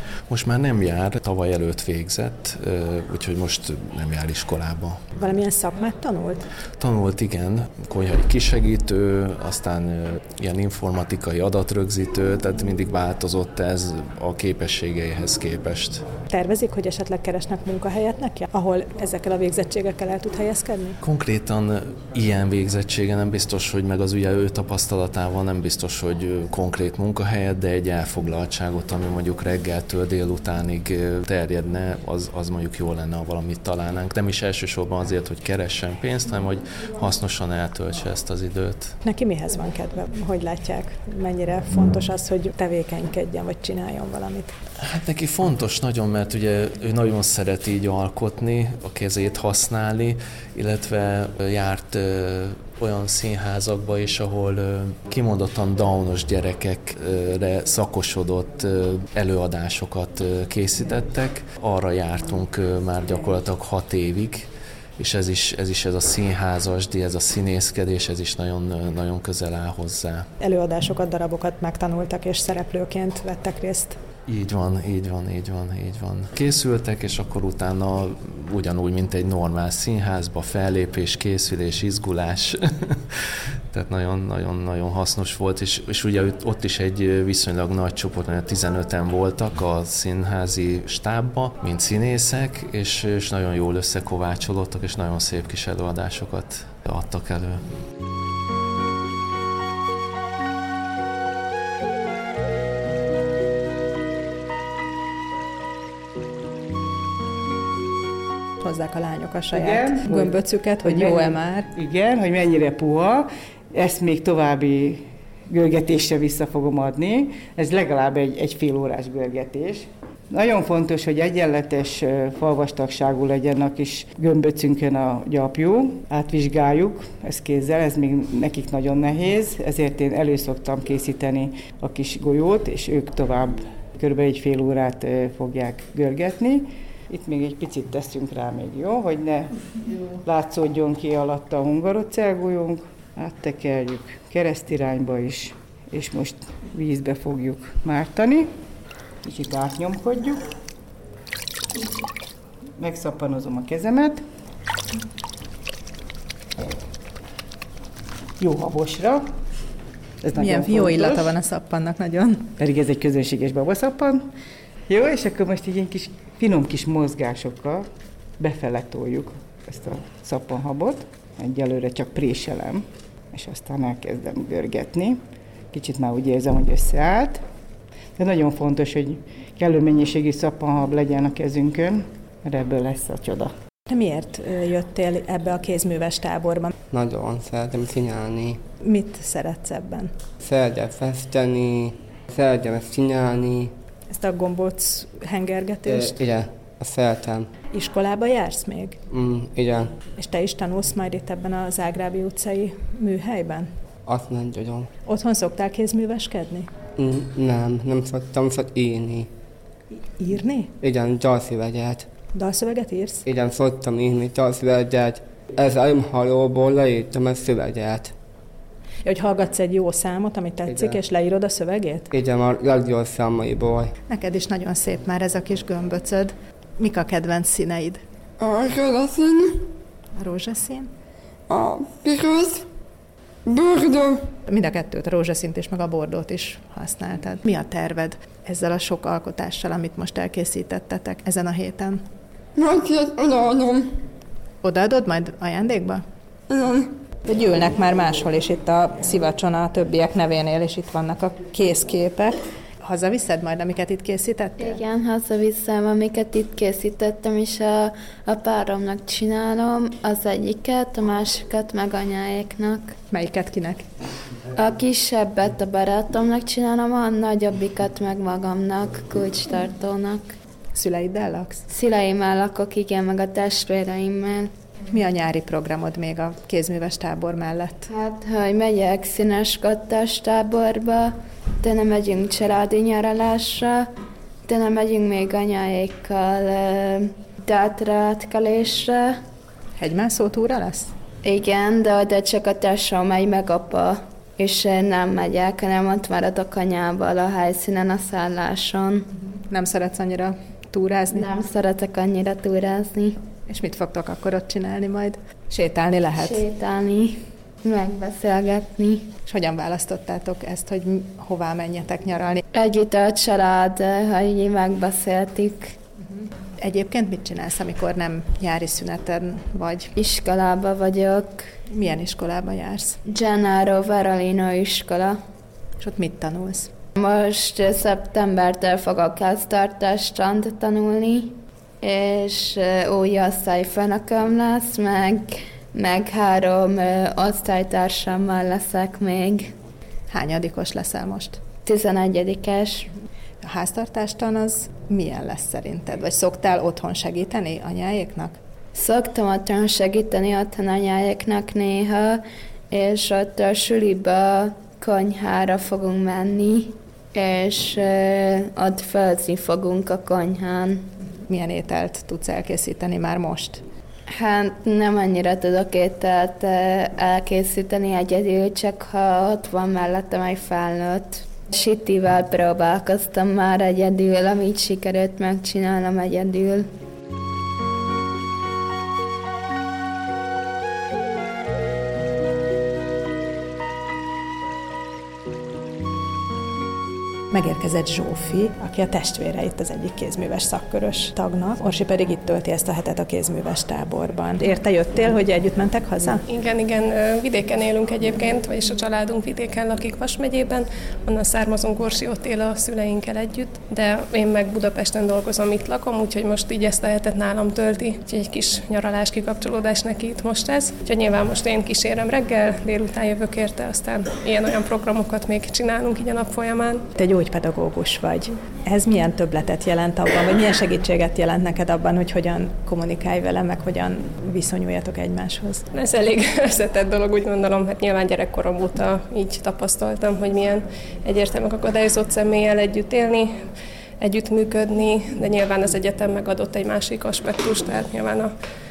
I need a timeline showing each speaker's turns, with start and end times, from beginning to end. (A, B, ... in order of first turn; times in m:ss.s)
0:00.3-0:05.0 A
0:05.2-0:06.5 B
0:06.8-0:16.0 A
0:16.3-0:21.0 B
0:21.0-0:39.0 A
0:39.0-0:44.5 B
0:44.8-1:10.3 A
1:10.4-1:14.0 B
1:14.3-1:37.6 A
1:48.6-1:51.7 B
1:49.5-2:19.5 C
2:20.2-2:28.5 C
2:29.2-2:30.4 C
2:32.8-2:34.2 C
2:38.4-2:39.3 C
2:40.2-2:41.3 C
2:40.4-2:42.5 B
2:42.6-2:44.2 C
2:44.9-2:47.8 C
2:48.4-2:55.2 C
2:55.7-2:57.4 C
2:58.2-3:03.5 C
3:03.9-3:06.7 B
3:06.9-3:08.6 D
3:08.8-3:10.1 B
3:10.4-3:13.7 D
3:14.1-3:16.2 B
3:15.8-3:17.5 D
3:17.7-3:19.0 B
3:19.1-3:19.9 D
3:20.2-3:23.7 B
3:24.1-3:24.9 D
3:25.0-3:26.7 B
3:27.0-3:29.3 D
3:30.2-3:30.7 B
3:30.8-3:32.1 D
3:32.3-3:33.2 B
3:33.2-3:38.1 D
3:39.0-3:42.1 B
3:40.6-3:41.0 D
3:42.1-3:43.9 D
3:44.1-3:48.0 B
3:48.4-3:49.7 E
3:50.2-3:50.9 B
3:51.5-3:52.7 E
3:53.4-3:54.3 E
3:54.5-4:02.0 B
4:02.6-4:04.0 E
4:04.6-4:06.0 B
4:06.5-4:06.9 E
4:07.2-4:14.8 B
4:14.6-4:23.0 F
4:23.1-4:23.8 B
4:24.5-4:30.3 F
4:30.7-4:31.6 B
4:31.7-4:34.5 F
4:34.9-4:37.9 B
4:37.9-4:43.9 F
4:44.4-4:49.2 F
4:49.8-4:50.9 B
4:51.2-4:59.1 F
4:59.5-5:01.2 B
5:01.1-5:03.2 F
5:03.5-5:06.4 B
5:06.1-5:09.1 F
5:09.2-5:12.4 B
5:12.5-5:15.7 F
5:16.6-5:19.9 B
5:20.0-5:21.5 F
5:21.7-5:23.0 B
5:23.0-5:25.2 F
5:25.8-5:26.7 B
5:27.0-5:39.5 F
5:40.1-5:41.4 B
5:41.6-5:42.9 F
5:43.4-5:48.4 B
5:48.7-6:00.9 F
6:01.3-6:03.6 B
6:04.1-6:16.7 F
6:27.3-6:36.2 B
6:36.3-6:56.8 G
6:56.9-7:05.6 B
7:05.7-7:13.5 G
7:14.0-7:18.3 G